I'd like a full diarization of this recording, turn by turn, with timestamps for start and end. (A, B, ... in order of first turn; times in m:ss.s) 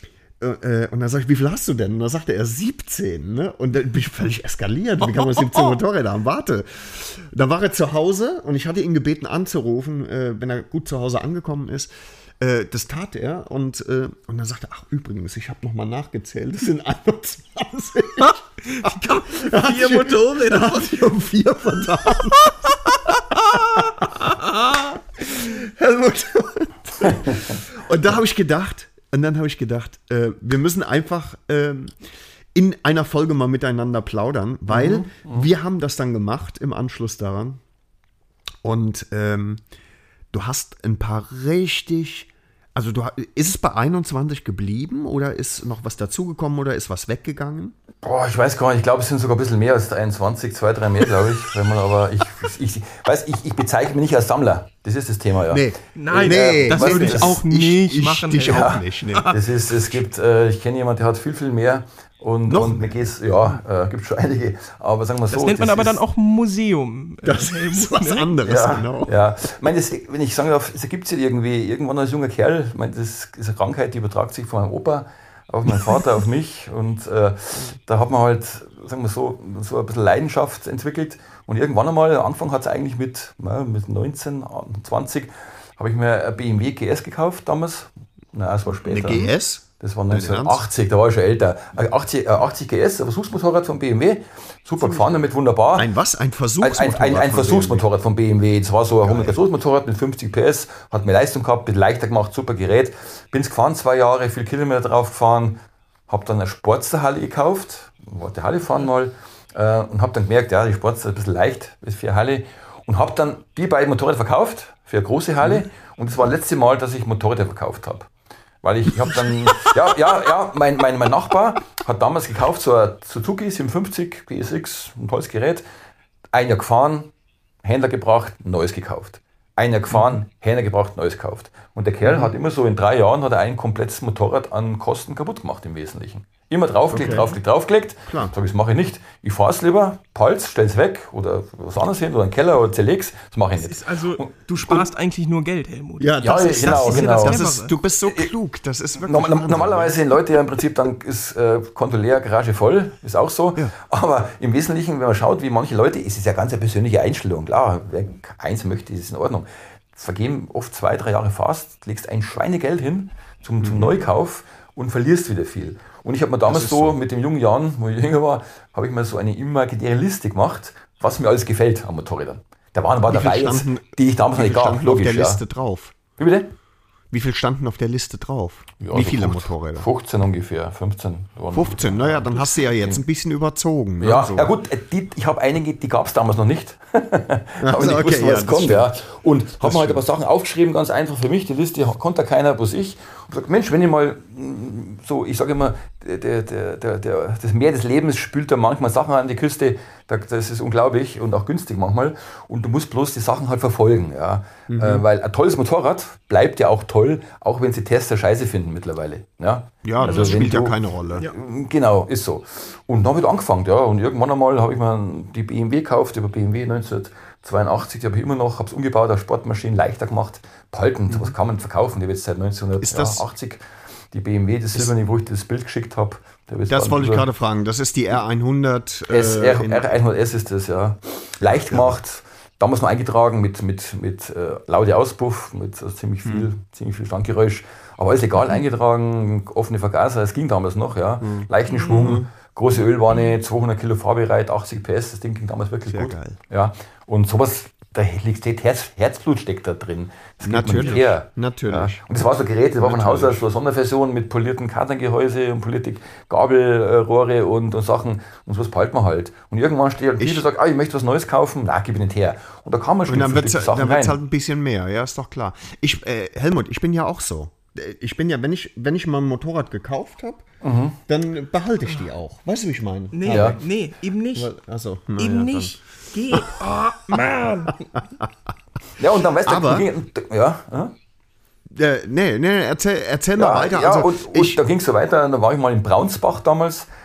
0:00.4-0:23.0 A
0:18.7-0:21.1 B
0:22.9-0:25.0 B
0:23.5-0:24.3 A
0:25.2-0:32.0 A
0:32.6-0:37.6 A
0:34.7-0:35.5 C
0:38.6-0:39.6 A
0:40.3-0:47.8 A
0:48.0-0:57.4 C
0:55.5-0:59.3 A
0:56.0-0:59.4 B
0:58.4-1:06.0 C
1:02.5-1:03.0 A
1:05.3-1:08.3 B
1:07.2-1:09.1 A
1:08.4-1:35.9 C
1:28.8-1:30.7 A
1:35.8-1:37.8 A
1:36.6-1:58.1 C
1:39.0-1:39.4 A
1:55.4-1:55.7 A
1:58.6-2:05.6 C
1:59.0-1:59.7 A
2:06.3-2:07.1 C
2:07.6-2:24.3 C
2:12.0-2:12.4 A
2:16.9-2:17.4 A
2:18.1-2:18.3 A
2:23.6-2:27.8 B
2:26.0-2:30.0 A
2:26.2-2:27.4 C
2:29.0-2:55.4 C
2:43.6-2:44.0 A
2:46.5-2:47.0 A
2:53.1-2:56.0 A
2:56.2-2:56.5 C
2:57.1-2:59.9 A
2:58.8-3:03.0 C
3:01.5-3:04.5 A
3:04.0-3:43.6 C
3:07.6-3:08.9 A
3:09.6-3:10.0 A
3:24.7-3:25.0 A
3:29.8-3:31.3 A
3:30.0-3:30.5 B
3:41.1-3:41.4 A
3:42.8-3:43.3 A
3:44.1-3:47.3 C
3:46.7-3:49.8 A
3:49.1-4:24.2 C
3:51.7-3:52.0 A
4:01.2-4:02.3 A
4:01.7-4:02.2 B
4:05.9-4:06.4 A
4:10.4-4:12.0 A
4:12.8-4:13.5 A
4:20.2-4:20.5 A
4:23.1-4:30.5 A
4:30.6-4:31.0 C
4:31.1-4:33.6 A
4:33.1-4:34.5 B
4:33.3-4:33.6 C
4:34.4-4:35.8 A
4:35.2-4:37.8 B
4:36.3-4:36.7 A
4:37.7-4:38.3 A
4:39.0-4:40.9 C
4:39.4-4:39.9 A
4:41.7-4:44.6 A
4:43.4-4:46.9 C